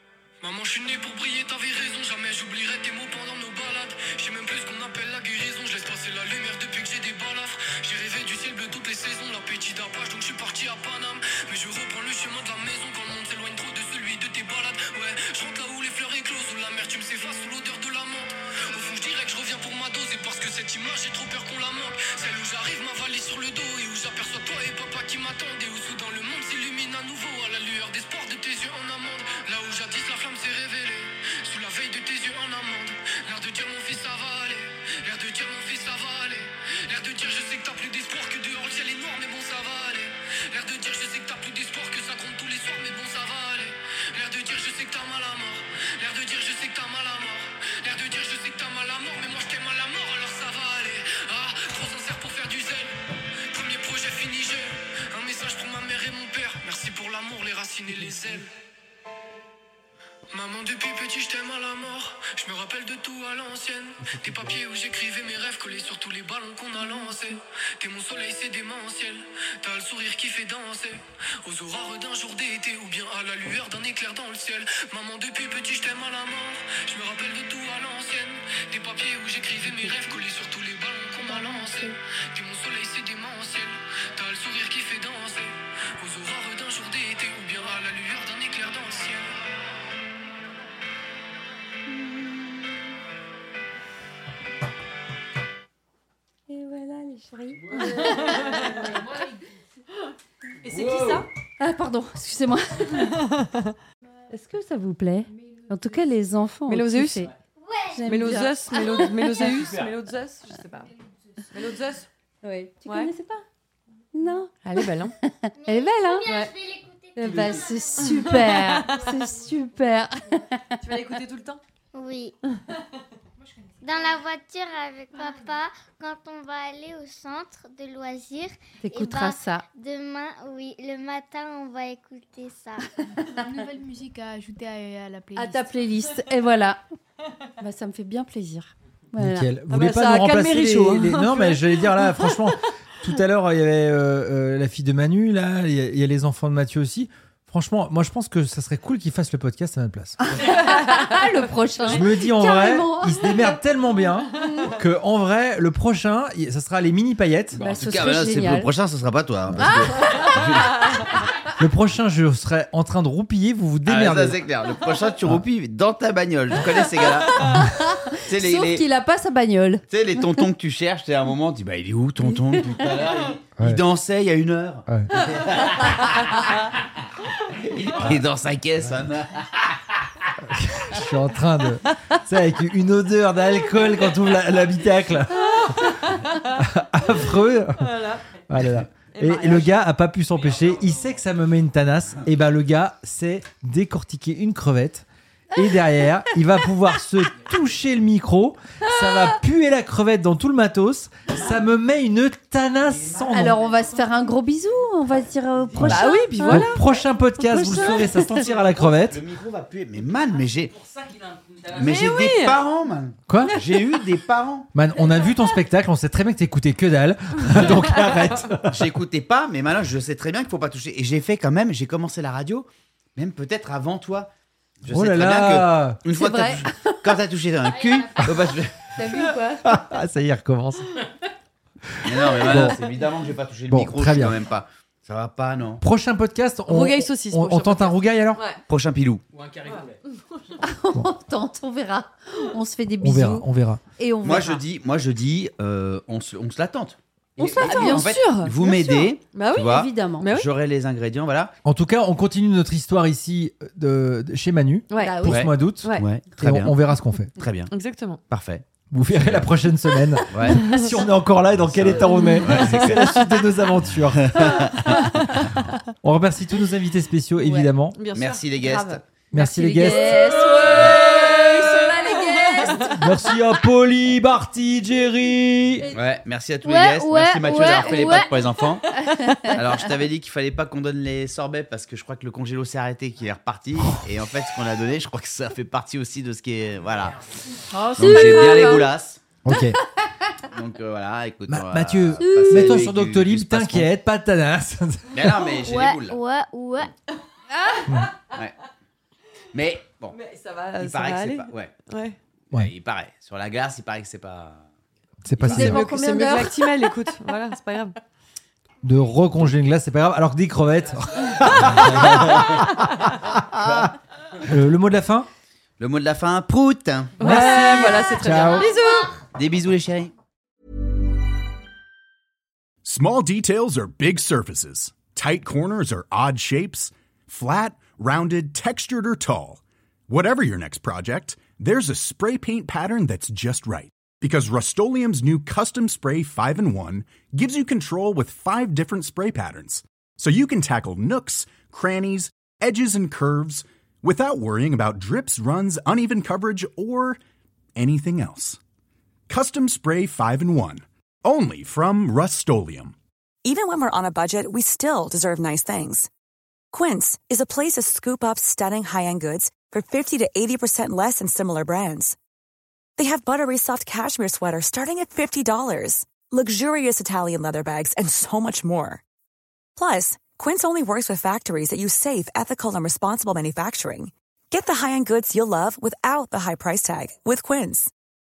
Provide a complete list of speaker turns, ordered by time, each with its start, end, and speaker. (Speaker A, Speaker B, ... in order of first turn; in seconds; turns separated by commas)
Speaker A: 0.4-52.9, Speaker A: 53.5-58.5, Speaker A: 60.3-89.7, Speaker B: 81.2-81.9, Speaker B: 91.9-92.7, Speaker B: 96.5-99.2, Speaker C: 97.8-99.0, Speaker C: 100.6-101.3, Speaker D: 100.7-101.2, Speaker B: 101.6-103.2, Speaker C: 103.0-103.7, Speaker B: 104.3-107.3, Speaker C: 106.7-107.3, Speaker E: 107.5-108.1, Speaker B: 107.9-109.4, Speaker C: 108.1-110.9, Speaker E: 108.8-109.0, Speaker C: 111.5-112.1, Speaker B: 112.4-113.4, Speaker C: 112.9-113.1, Speaker B: 114.1-114.5, Speaker C: 114.6-115.1, Speaker B: 115.2-116.3, Speaker E: 115.6-117.9, Speaker C: 116.2-116.5, Speaker B: 117.1-120.8, Speaker C: 118.0-119.1, Speaker C: 120.8-121.6, Speaker E: 121.9-122.3, Speaker E: 123.8-132.9, Speaker B: 128.8-129.7, Speaker F: 133.3-135.8, Speaker B: 135.3-136.8, Speaker B: 137.6-139.5, Speaker G: 139.2-150.2, Speaker C: 139.7-142.5, Speaker B: 150.3-153.6, Speaker G: 151.8-157.6, Speaker B: 157.6-158.7, Speaker H: 157.6-160.9, Speaker B: 159.5-160.8, Speaker G: 161.6-164.4, Speaker H: 163.8-167.6, Speaker B: 167.4-170.2, Speaker H: 168.2-168.8, Speaker H: 169.9-176.6, Speaker G: 174.9-175.2, Speaker H: 177.4-179.7, Speaker G: 180.4-185.8, Speaker C: 185.3-186.6, Speaker G: 186.6-187.9, Speaker C: 187.8-188.2, Speaker G: 188.5-203.6, Speaker C: 189.1-189.8, Speaker B: 203.3-206.7, Speaker G: 205.8-209.2, Speaker C: 205.8-207.0, Speaker B: 207.4-208.5, Speaker H: 208.9-210.7, Speaker D: 210.8-211.8, Speaker H: 211.7-214.7, Speaker C: 211.8-212.6, Speaker G: 213.3-213.6, Speaker G: 214.7-218.8, Speaker C: 217.5-218.3, Speaker H: 218.6-224.3, Speaker H: 224.8-228.9, Speaker G: 224.9-226.0, Speaker B: 226.1-227.0, Speaker B: 228.9-229.8, Speaker G: 229.1-231.0, Speaker G: 231.9-232.8, Speaker H: 232.0-235.8, Speaker G: 233.7-234.3, Speaker G: 235.8-238.4, Speaker C: 236.7-238.6, Speaker H: 238.7-239.2, Speaker D: 239.3-240.0, Speaker B: 240.6-244.6, Speaker G: 243.0-243.8, Speaker H: 244.2-251.5, Speaker B: 247.4-249.0, Speaker C: 247.6-250.5, Speaker B: 249.6-250.3, Speaker G: 251.6-257.3, Speaker C: 254.9-255.2, Speaker B: 255.0-255.5, Speaker H: 255.2-256.7, Speaker H: 257.4-257.7, Speaker C: 257.7-258.2, Speaker H: 258.3-259.5, Speaker G: 258.9-268.0, Speaker H: 260.3-260.7, Speaker C: 260.6-260.8, Speaker H: 261.6-263.2, Speaker C: 262.2-263.3, Speaker H: 264.1-265.0, Speaker B: 267.4-267.7, Speaker C: 267.9-268.8, Speaker H: 268.1-269.0, Speaker B: 268.7-273.3, Speaker G: 269.3-270.4, Speaker C: 269.8-270.6, Speaker H: 270.7-271.0, Speaker C: 272.5-272.9, Speaker G: 273.0-275.9, Speaker H: 275.9-278.8, Speaker E: 276.6-278.7, Speaker B: 279.0-279.6, Speaker H: 279.5-287.2, Speaker B: 287.7-288.9, Speaker H: 287.9-289.2, Speaker C: 288.0-288.8, Speaker G: 289.4-289.8, Speaker B: 289.5-289.8, Speaker H: 290.5-293.9, Speaker G: 291.5-295.3, Speaker H: 295.1-296.2, Speaker E: 295.5-296.9, Speaker H: 299.5-300.2, Speaker C: 300.1-302.2, Speaker H: 300.8-301.7, Speaker H: 302.5-304.6, Speaker G: 305.2-305.8, Speaker B: 305.4-306.8, Speaker C: 305.4-307.9, Speaker G: 308.8-313.1, Speaker C: 311.4-312.1, Speaker H: 313.4-313.9, Speaker G: 314.4-315.3, Speaker H: 315.8-317.3, Speaker C: 317.2-319.1, Speaker G: 317.2-318.7, Speaker H: 319.3-320.1, Speaker I: 322.8-347.2, Speaker I: 347.8-348.6, Speaker I: 349.3-352.9, Speaker J: 353.4-356.1, Speaker J: 356.7-362.1, Speaker J: 363.0-369.0, Speaker J: 369.8-377.9